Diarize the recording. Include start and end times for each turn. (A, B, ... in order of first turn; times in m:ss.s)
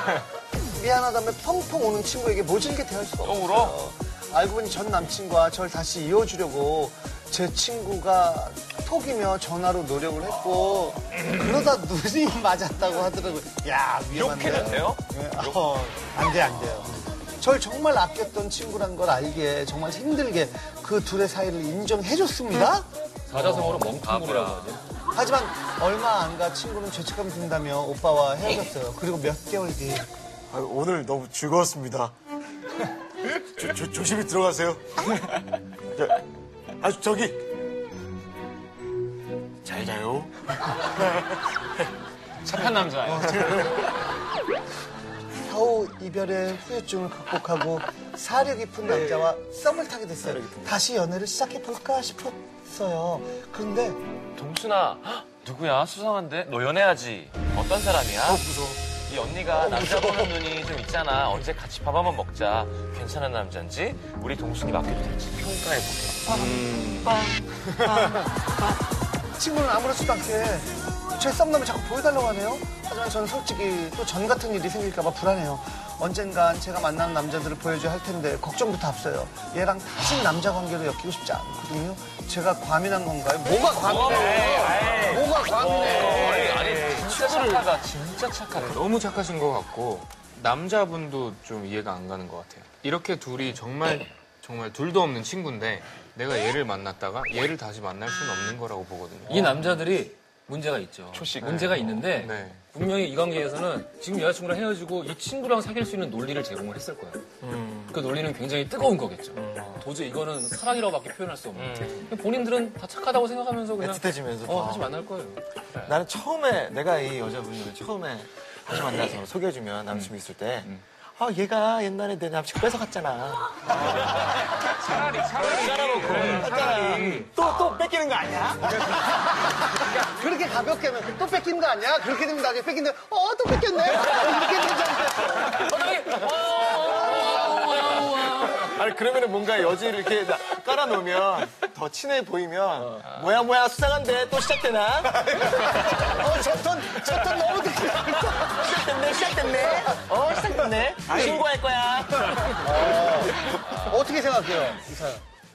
0:00.7-0:22.9 A
0:03.2-0:03.8 B
0:14.1-0:15.6 B
0:16.6-0:16.9 B
0:23.3-0:24.8 C
0:23.3-0:24.7 B
0:25.1-0:30.1 A
0:30.5-0:32.1 D
0:33.3-0:36.2 D
0:36.8-0:37.4 D
0:39.6-0:41.8 D
0:42.4-0:43.7 A
0:42.4-0:43.9 B
0:45.4-0:54.0 A
0:50.4-0:50.7 D
0:54.4-1:06.3 B
0:58.2-0:58.8 D
0:59.5-1:00.3 D
1:06.2-1:08.0 D
1:06.3-1:07.1 E
1:07.8-1:08.2 A
1:09.4-1:26.6 A
1:23.8-1:28.8 B
1:25.8-1:27.6 E
1:28.5-1:39.6 E
1:39.2-1:47.2 C
1:41.1-1:42.0 B
1:41.4-1:42.6 E
1:47.4-1:48.0 D
1:47.9-1:55.4 C
1:49.4-1:49.8 D
1:51.6-1:52.1 B
1:53.8-1:54.9 D
1:55.7-1:56.0 B
1:55.8-2:09.2 D
2:03.8-2:07.3 E
2:09.0-2:15.8 A
2:15.6-2:18.8 C
2:18.0-2:26.0 D
2:25.2-2:29.0 A
2:27.1-2:27.4 D
2:28.3-2:33.2 D
2:32.5-2:35.2 A
2:33.6-2:34.1 B